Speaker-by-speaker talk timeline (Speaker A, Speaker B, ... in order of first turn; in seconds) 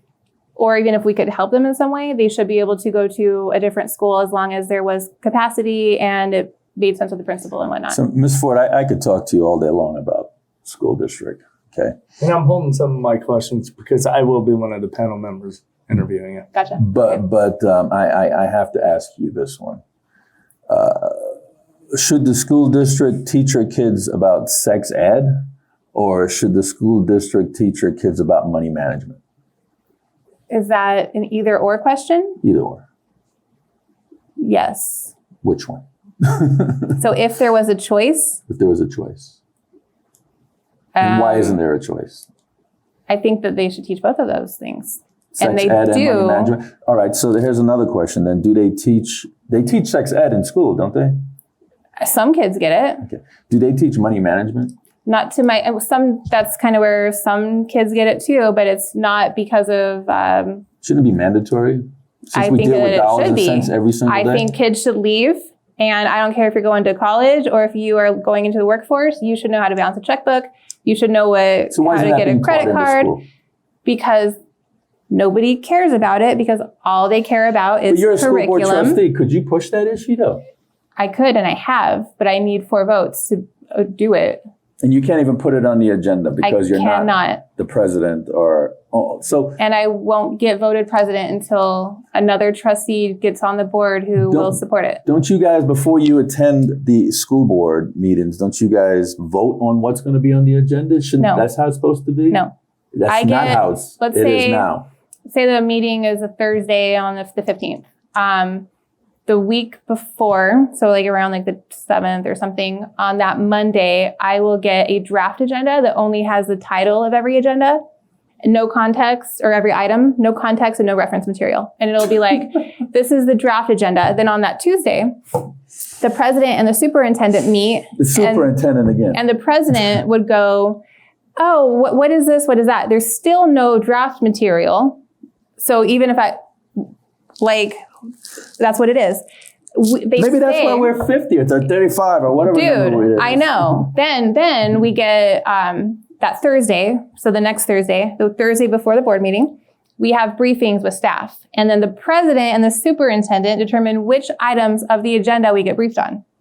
Speaker A: 0.6-8.0, 16.5-17.2, 30.5-32.4, 34.4-35.1, 37.0-38.4, 41.0-41.6, 43.1-46.6, 52.0-53.1, 55.1-60.6, 62.3-73.1, 73.8-74.4, 75.1-79.0, 81.0-84.4, 86.4-87.4, 89.6-95.0, 101.2-101.5, 103.1-104.7, 105.3-108.7, 109.3-117.8, 118.4-125.1, 126.0-128.5, 129.1-130.8, 131.4-135.0, 135.6-136.9, 137.4-137.8, 138.6-140.9, 142.5-156.2
Speaker B: 7.9-12.0, 16.8-19.8, 20.7-21.3, 21.9-25.3, 25.9-29.2, 32.4-32.8, 35.4-37.0, 38.5-39.4, 41.0-42.3, 45.4-51.2, 53.0-54.8, 60.8-64.5, 71.7-73.2, 77.9-80.4, 84.8-89.6, 94.2-102.4, 103.0-104.9, 128.0-129.2, 140.2-143.8
Speaker C: 12.2-16.5